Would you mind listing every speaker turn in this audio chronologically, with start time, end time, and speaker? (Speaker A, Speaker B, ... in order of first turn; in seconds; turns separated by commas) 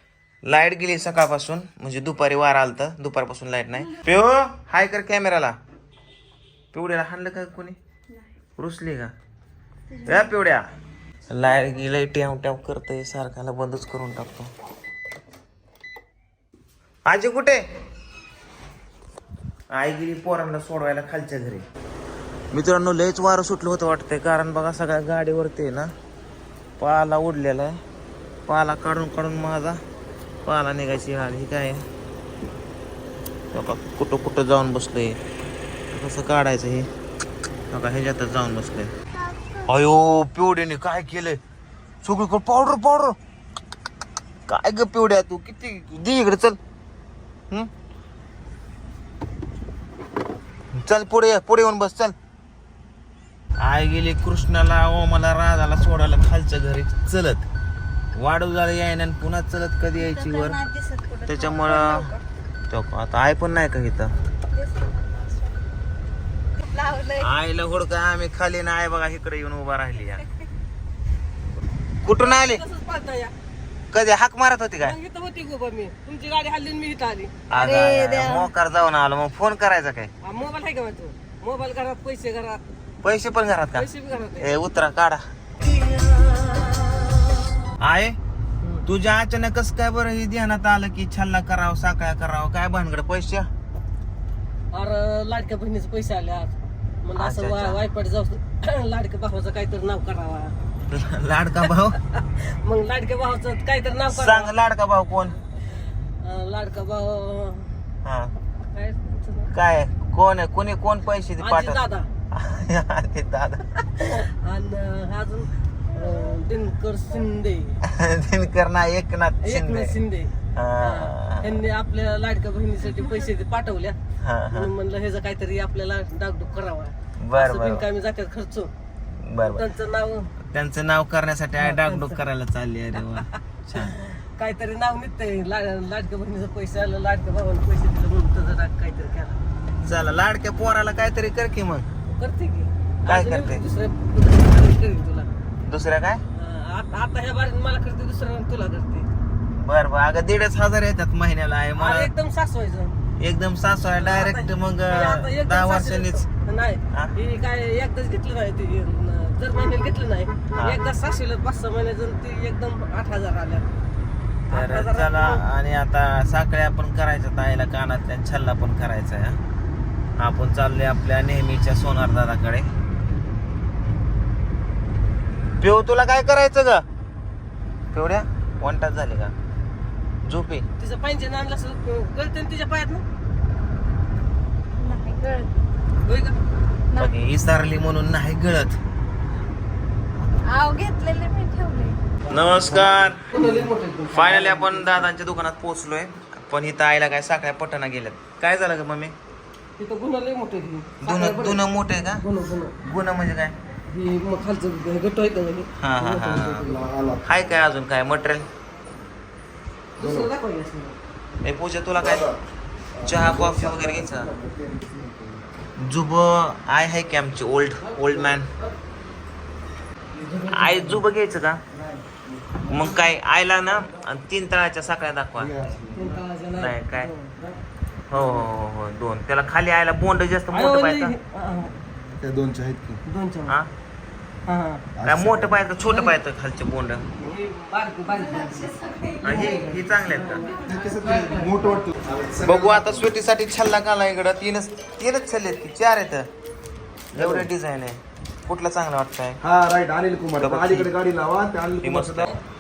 Speaker A: 0.5-5.6, Speaker A: 6.7-7.8, Speaker A: 8.6-9.1, Speaker B: 9.9-10.3, Speaker A: 10.0-10.7, Speaker A: 11.3-14.5, Speaker A: 17.1-17.6, Speaker A: 19.7-21.7, Speaker A: 22.5-25.9, Speaker A: 26.8-27.8, Speaker A: 28.5-29.8, Speaker A: 30.4-31.8, Speaker A: 33.5-35.2, Speaker A: 35.9-36.9, Speaker A: 37.7-38.9, Speaker B: 39.2-39.7, Speaker A: 39.6-41.4, Speaker A: 42.0-43.2, Speaker A: 44.5-46.6, Speaker A: 50.7-52.1, Speaker A: 53.6-57.5, Speaker A: 58.1-60.6, Speaker B: 60.0-62.2, Speaker A: 61.3-62.1, Speaker A: 62.7-64.1, Speaker B: 64.5-65.6, Speaker B: 66.6-67.3, Speaker A: 67.2-70.3, Speaker A: 72.0-72.6, Speaker C: 72.1-73.3, Speaker A: 73.9-75.0, Speaker C: 74.8-77.4, Speaker A: 77.5-80.1, Speaker B: 77.5-78.5, Speaker C: 80.2-82.6, Speaker A: 83.0-85.2, Speaker C: 83.7-84.6, Speaker C: 85.7-87.4, Speaker A: 87.8-88.2, Speaker A: 88.9-93.5, Speaker C: 94.7-100.5, Speaker A: 97.2-97.8, Speaker A: 100.9-102.0, Speaker C: 101.6-104.5, Speaker A: 104.1-105.4, Speaker C: 106.2-107.8, Speaker A: 108.0-108.3, Speaker C: 108.7-109.5, Speaker A: 109.5-111.8, Speaker C: 111.4-112.1, Speaker A: 112.3-113.9, Speaker C: 114.0-117.8, Speaker A: 117.8-120.0, Speaker C: 119.4-124.0, Speaker A: 120.5-121.5, Speaker A: 124.2-124.7, Speaker C: 124.5-128.7, Speaker A: 127.2-127.8, Speaker A: 129.2-129.7, Speaker C: 129.4-130.3, Speaker A: 130.5-133.9, Speaker C: 131.6-132.2, Speaker C: 133.8-139.4, Speaker A: 139.8-141.9, Speaker C: 142.1-145.3, Speaker A: 143.1-143.6, Speaker A: 145.6-146.2, Speaker C: 146.3-149.1, Speaker A: 149.6-152.1, Speaker C: 151.8-153.0, Speaker A: 153.2-156.3, Speaker C: 154.0-163.7, Speaker C: 164.5-165.4, Speaker A: 164.5-169.4, Speaker A: 170.2-172.7, Speaker A: 175.6-176.8, Speaker A: 177.9-179.3, Speaker A: 180.2-180.7, Speaker C: 180.8-183.0, Speaker B: 184.8-185.5, Speaker C: 186.1-186.4, Speaker A: 186.9-188.8, Speaker B: 190.4-192.4, Speaker A: 192.3-193.3, Speaker C: 193.3-195.1, Speaker A: 194.1-199.2, Speaker C: 199.8-201.6, Speaker A: 201.0-202.2, Speaker C: 202.2-202.8, Speaker A: 202.8-203.6, Speaker C: 203.9-206.8, Speaker A: 205.8-206.7, Speaker D: 206.6-207.3, Speaker A: 207.2-208.5, Speaker C: 210.0-211.0, Speaker D: 210.0-210.3, Speaker A: 211.4-212.3, Speaker D: 212.0-212.4, Speaker D: 213.0-215.4, Speaker A: 213.0-214.3, Speaker A: 215.8-218.5, Speaker C: 217.8-218.7, Speaker C: 220.2-221.0, Speaker A: 220.5-221.6, Speaker D: 222.1-222.7, Speaker A: 222.7-225.6, Speaker D: 225.4-226.2, Speaker C: 225.9-227.6, Speaker A: 226.6-227.1, Speaker A: 228.1-231.2, Speaker C: 230.5-231.8, Speaker D: 232.1-233.0, Speaker C: 233.1-233.6, Speaker C: 234.5-234.9, Speaker D: 235.0-235.6, Speaker A: 235.1-237.1, Speaker C: 235.9-236.2, Speaker C: 237.2-241.8, Speaker B: 238.1-239.7, Speaker A: 239.2-240.5, Speaker B: 240.3-240.9, Speaker D: 240.7-243.1, Speaker A: 242.4-246.3, Speaker A: 247.1-249.4, Speaker D: 247.2-247.5, Speaker D: 249.4-252.3, Speaker A: 250.4-250.9, Speaker A: 251.8-252.3